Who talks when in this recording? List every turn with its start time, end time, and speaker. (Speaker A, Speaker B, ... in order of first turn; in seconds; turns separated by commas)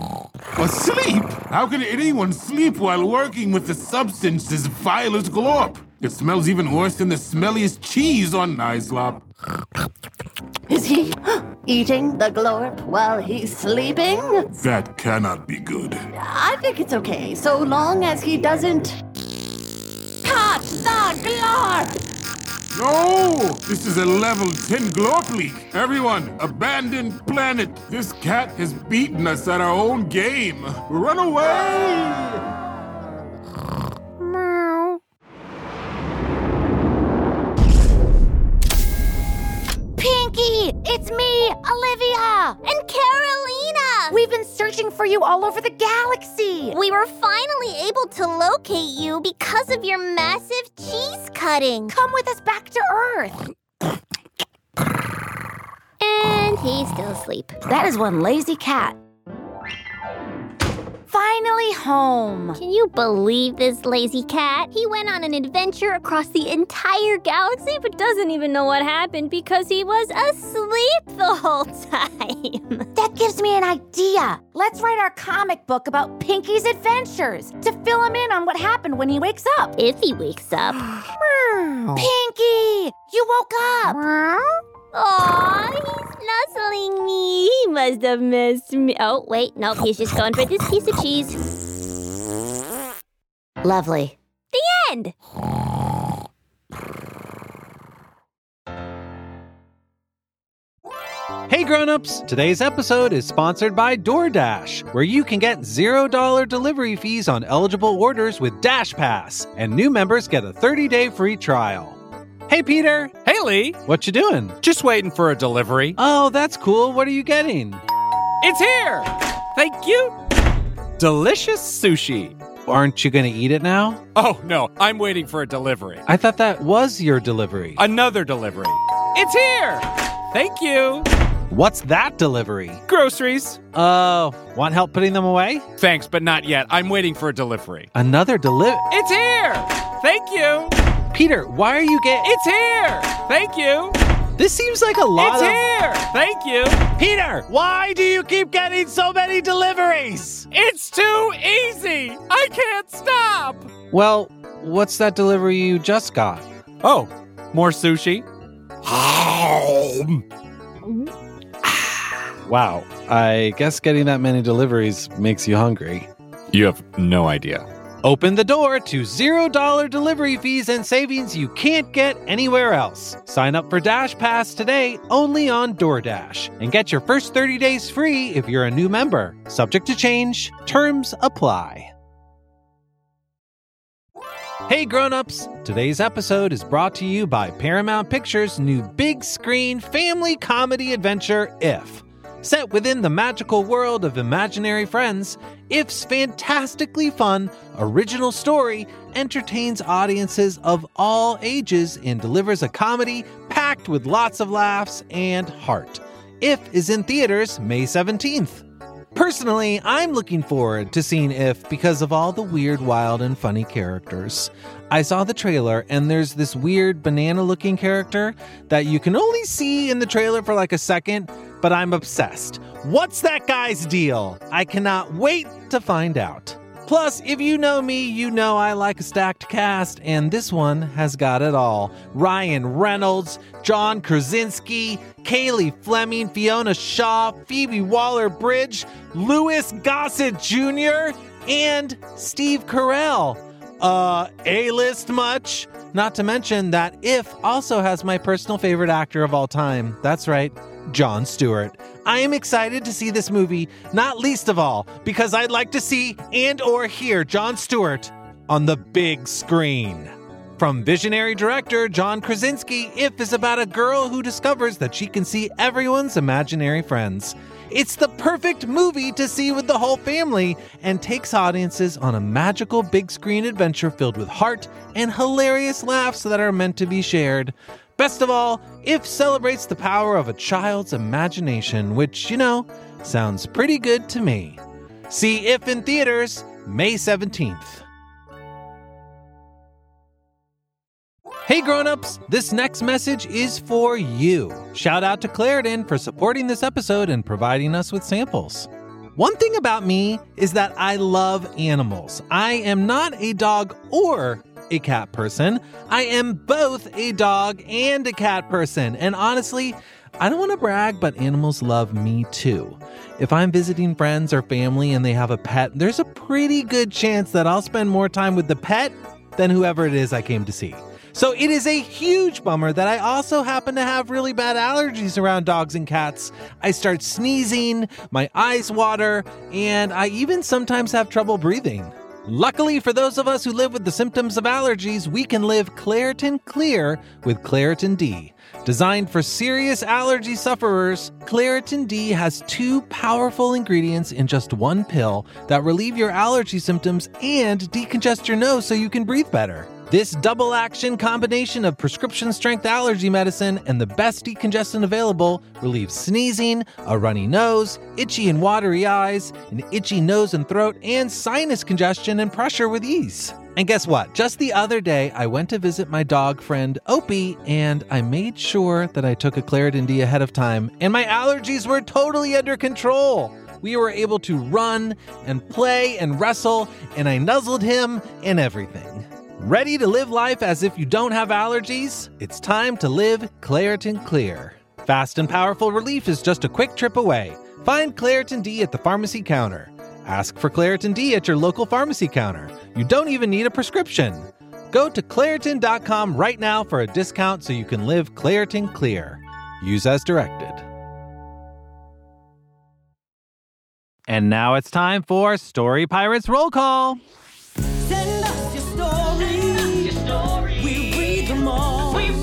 Speaker A: 0.6-9.2, Speaker B: 10.7-14.5, Speaker A: 14.5-16.0, Speaker B: 16.2-19.0, Speaker C: 20.2-21.9, Speaker A: 22.7-32.4, Speaker C: 34.2-35.0, Speaker C: 40.0-42.6, Speaker D: 42.6-44.2, Speaker C: 44.1-46.8, Speaker D: 46.7-52.0, Speaker C: 51.9-53.5, Speaker D: 56.0-57.5, Speaker C: 57.7-59.0, Speaker C: 61.1-62.6, Speaker D: 62.5-72.9, Speaker C: 73.0-79.8, Speaker D: 79.8-80.8, Speaker C: 81.9-84.4, Speaker D: 84.9-91.4, Speaker D: 93.6-95.1, Speaker E: 101.5-112.0, Speaker E: 112.5-113.2, Speaker F: 113.2-113.8, Speaker E: 113.8-114.6, Speaker F: 114.6-116.0, Speaker E: 116.0-117.8, Speaker F: 118.4-120.1, Speaker F: 121.0-122.4, Speaker E: 122.7-124.0, Speaker F: 124.1-126.0, Speaker E: 126.1-127.8, Speaker F: 127.8-131.1, Speaker E: 131.5-132.8, Speaker F: 132.9-133.6, Speaker E: 133.7-135.7, Speaker F: 135.8-137.9, Speaker E: 137.9-138.9, Speaker F: 138.9-140.7, Speaker E: 141.1-142.4, Speaker F: 142.2-144.0, Speaker E: 144.4-145.7, Speaker F: 145.2-146.8, Speaker E: 147.0-150.5, Speaker F: 150.5-153.7, Speaker E: 153.9-156.5, Speaker F: 156.8-158.2, Speaker F: 158.9-160.2, Speaker E: 162.5-166.1, Speaker F: 166.5-167.7, Speaker E: 168.0-181.9, Speaker E: 184.7-208.6, Speaker E: 209.1-287.9, Speaker E: 291.5-400.7, Speaker E: 404.1-407.0, Speaker C: 408.1-409.7, Speaker C: 410.8-411.4